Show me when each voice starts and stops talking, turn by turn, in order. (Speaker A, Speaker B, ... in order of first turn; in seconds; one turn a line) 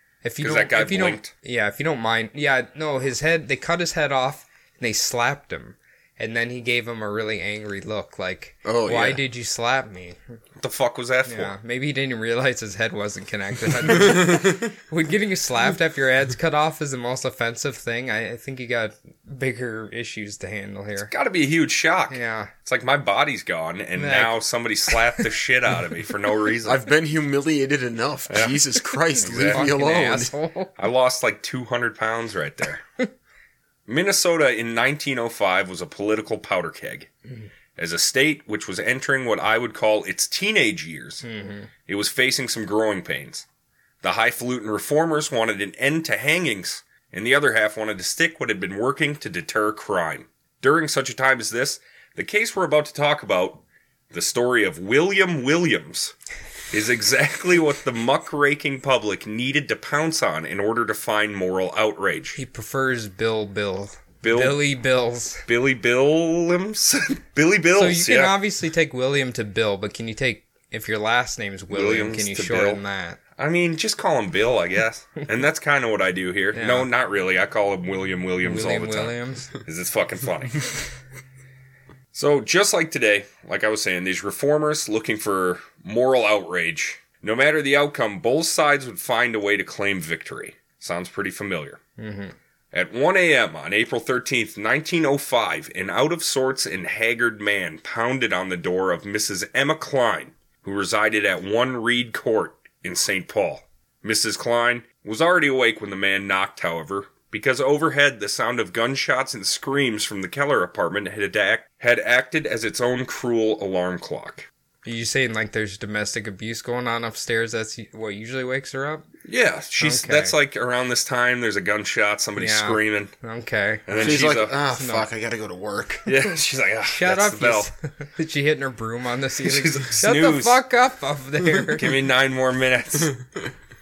Speaker A: 0.2-10.2
Speaker B: 0.4-1.3
Speaker C: 8.6-9.2
Speaker B: 10.6-11.5
Speaker A: 11.3-21.1
Speaker B: 21.0-26.8
Speaker A: 22.1-22.5
Speaker A: 24.0-24.4
Speaker A: 24.9-25.2
Speaker C: 26.6-30.3
Speaker B: 28.3-28.6
Speaker B: 29.2-29.6
Speaker A: 29.2-30.7
Speaker B: 30.8-32.8
Speaker B: 33.9-37.1
Speaker B: 37.8-41.2
Speaker A: 41.2-41.7
Speaker B: 41.9-43.4
Speaker B: 44.0-56.1
Speaker B: 56.7-62.4
Speaker A: 62.4-65.4
Speaker B: 64.2-64.6
Speaker B: 65.5-68.4
Speaker A: 67.7-73.2
Speaker B: 71.7-72.8
Speaker B: 73.4-80.6
Speaker A: 76.5-76.9
Speaker A: 78.4-79.5
Speaker B: 82.1-91.8
Speaker A: 92.0-92.3
Speaker B: 92.7-114.5
Speaker A: 114.8-119.0
Speaker B: 119.2-123.1
Speaker A: 119.8-120.3
Speaker A: 122.4-125.1
Speaker B: 123.9-124.5
Speaker C: 124.0-126.0
Speaker B: 126.1-127.7
Speaker A: 126.9-131.9
Speaker B: 129.4-130.6
Speaker B: 131.8-133.2